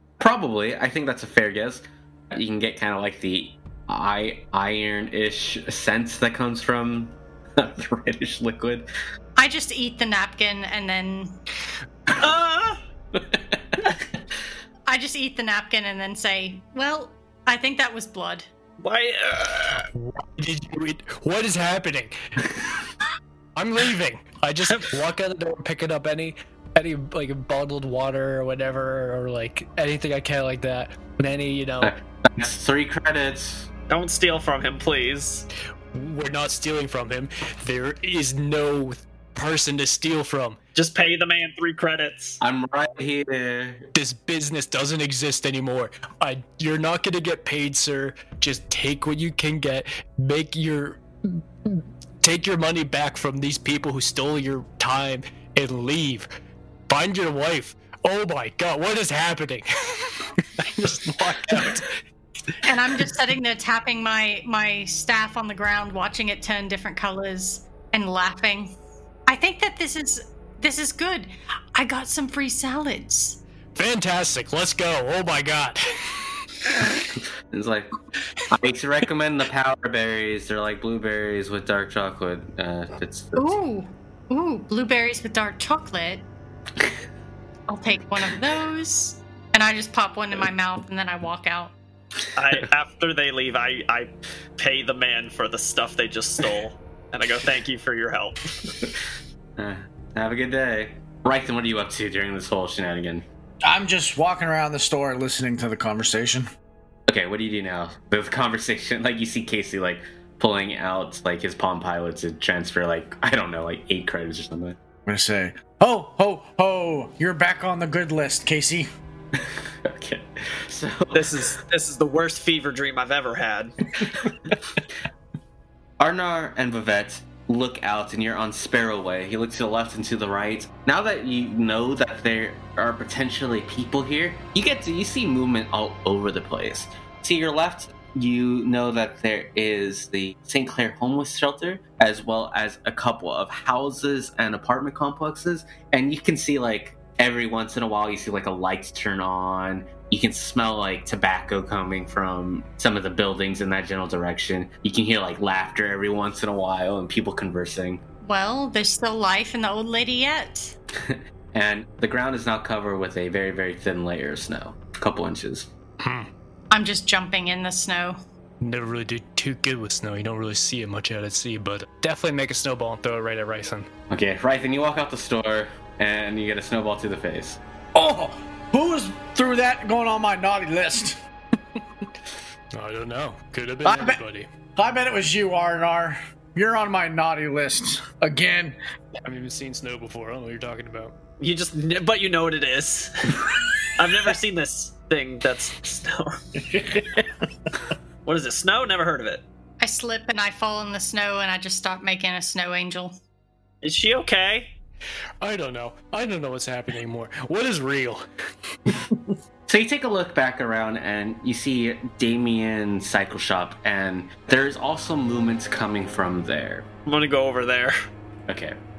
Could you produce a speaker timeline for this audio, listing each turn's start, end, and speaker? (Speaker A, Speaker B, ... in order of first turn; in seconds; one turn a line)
Speaker A: 0.2-8.9
Speaker B: 9.4-11.3
Speaker C: 12.1-12.8
Speaker A: 13.2-13.5
Speaker B: 14.9-18.5
Speaker C: 18.8-19.9
Speaker D: 19.9-22.6
Speaker D: 23.6-31.9
Speaker A: 31.8-33.7
Speaker C: 33.9-35.5
Speaker D: 35.9-40.6
Speaker C: 40.7-42.4
Speaker A: 42.4-43.9
Speaker D: 43.9-56.3
Speaker D: 56.9-62.0
Speaker B: 62.6-68.7
Speaker B: 69.3-73.4
Speaker D: 73.7-77.0
Speaker A: 77.5-77.9
Speaker A: 78.5-83.6
Speaker B: 83.3-86.2
Speaker B: 87.7-91.7
Speaker C: 92.3-98.5
Speaker A: 99.6-103.2
Speaker E: 103.6-106.5
Speaker A: 107.1-114.8
Speaker E: 115.0-118.9
Speaker A: 119.4-121.5
Speaker C: 121.1-123.9
Speaker A: 126.0-158.0
Speaker B: 158.2-160.7
Speaker A: 161.0-165.7
Speaker D: 166.0-166.3
Speaker B: 166.7-168.2
Speaker D: 168.6-173.9
Speaker A: 174.1-177.6
Speaker E: 177.9-181.2
Speaker D: 182.7-184.5
Speaker E: 183.8-184.2
Speaker E: 184.8-188.7
Speaker D: 189.2-191.1
Speaker C: 191.4-196.6
Speaker C: 198.2-199.4
Speaker B: 199.8-203.1
Speaker C: 203.8-204.7
Speaker D: 205.4-208.2
Speaker A: 209.7-216.8
Speaker C: 217.1-217.9
Speaker A: 218.5-218.8